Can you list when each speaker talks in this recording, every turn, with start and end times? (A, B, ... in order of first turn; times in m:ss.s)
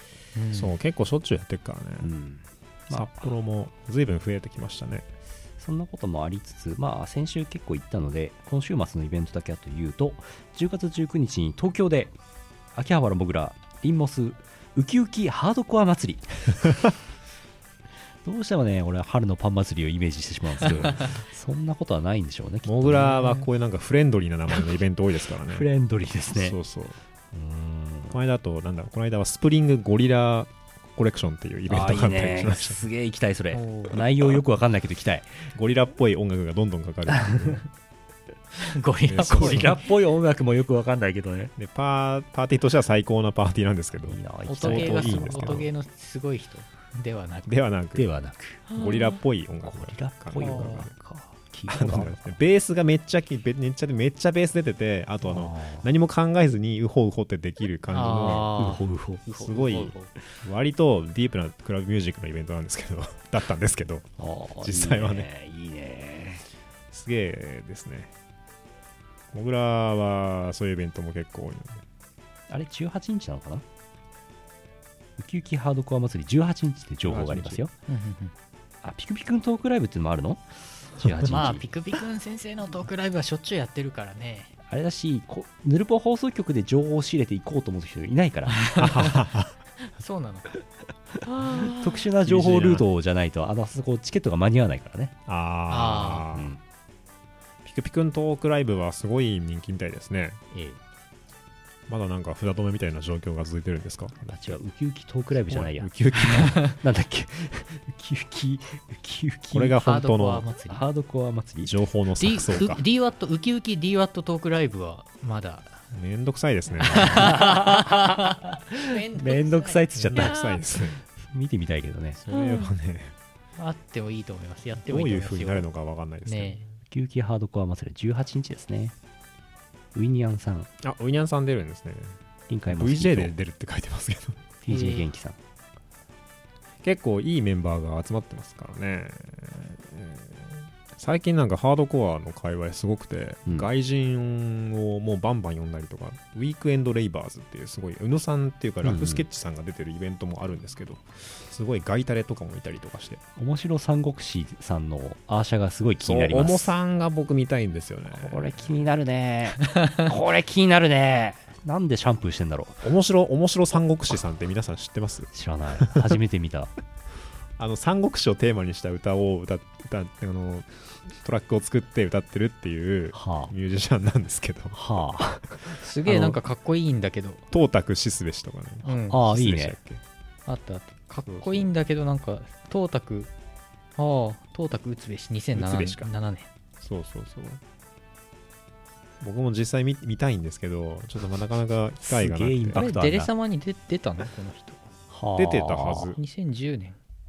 0:00.4-0:00.8 A
0:00.5-0:02.1 B
0:02.0-0:03.3 C
0:02.9-0:05.1 B
0:05.6-0:12.2 C
0:12.7-0:16.6 C
0:18.2-0:23.2 C
0:22.6-0:25.7 B
0:23.1-0:23.4 A
0:25.5-0:26.6 C
0:26.3-0:27.0 B
0:27.3-0:28.2 C
0:28.1-0:32.8 B
0:31.7-0:35.3 C
0:33.5-0:34.0 A
0:35.5-0:37.7 B
0:38.6-0:39.8 A
0:39.1-0:39.8 B
0:39.2-0:41.5 C
0:41.6-0:45.7 B
0:44.0-0:45.7 C
0:44.4-0:47.5 A
0:47.5-0:48.1 B
0:47.9-0:48.7 C
0:48.7-0:50.9 B
0:49.6-0:52.3 C
0:50.4-0:50.8 A
0:51.7-0:58.6 B
0:55.2-0:55.9 C
0:57.9-1:00.1 A
0:58.1-0:59.5 C
0:59.3-1:04.1 B
1:04.2-1:06.4 C
1:04.6-1:05.3 B
1:06.9-1:08.1 B
1:09.3-1:11.8 B
1:12.5-1:13.6 C
1:15.2-1:17.7 C
1:17.0-1:17.6 B
1:17.9-1:18.3 A
1:18.8-1:21.6 C
1:21.3-1:24.5 A
1:24.7-1:28.8 C
1:28.6-1:29.0 A
1:28.7-1:29.5 B
1:29.8-1:30.5 A
1:31.2-1:32.0 A
1:31.3-1:35.1 C
1:32.2-1:32.8 B
1:35.3-1:36.5 B
1:35.7-1:36.3 A
1:36.3-1:36.6 C
1:37.6-1:40.4 B
1:40.5-1:40.8 C
1:41.9-1:44.6 B
1:44.2-1:49.8 C
1:45.5-1:46.7 B
1:46.3-1:46.7 A
1:49.5-1:50.5 B
1:49.8-1:50.8 A
1:50.7-1:51.7 C
1:51.6-1:52.8 B
1:52.2-1:55.8 A
1:55.9-1:57.3 B
1:56.9-2:00.6 A
1:56.9-1:57.9 C
1:58.7-2:00.4 C
1:59.9-2:01.0 B
2:01.1-2:02.2 C
2:02.2-2:03.1 B
2:02.3-2:02.7 A
2:03.6-2:05.7 A
2:04.8-2:06.7 B
2:06.2-2:06.6 A
2:06.9-2:08.9 C
2:09.9-2:10.7 C
2:10.8-2:14.5 B
2:12.5-2:13.3 C
2:14.6-2:15.4 C
2:14.7-2:15.1 A
2:16.8-2:33.2 B
2:28.8-2:29.2 C
2:33.4-2:36.7 C
2:36.0-2:38.6 B
2:38.1-2:42.9 C
2:42.8-2:46.2 B
2:45.3-2:46.7 C
2:47.6-2:55.1 B
2:53.1-2:53.5 C
2:54.7-2:56.3 C
2:55.6-2:57.4 A
2:57.5-3:00.0 B
2:58.8-2:59.2 A
2:59.1-2:59.8 C
3:00.5-3:03.3 A
3:01.3-3:01.7 B
3:04.0-3:06.5 A
3:05.5-3:06.1 B
3:06.8-3:07.6 B
3:09.2-3:12.8 B
3:12.0-3:13.3 C
3:12.7-3:14.9 A
3:15.1-3:16.1 C
3:15.4-3:16.2 B
3:16.1-3:17.0 A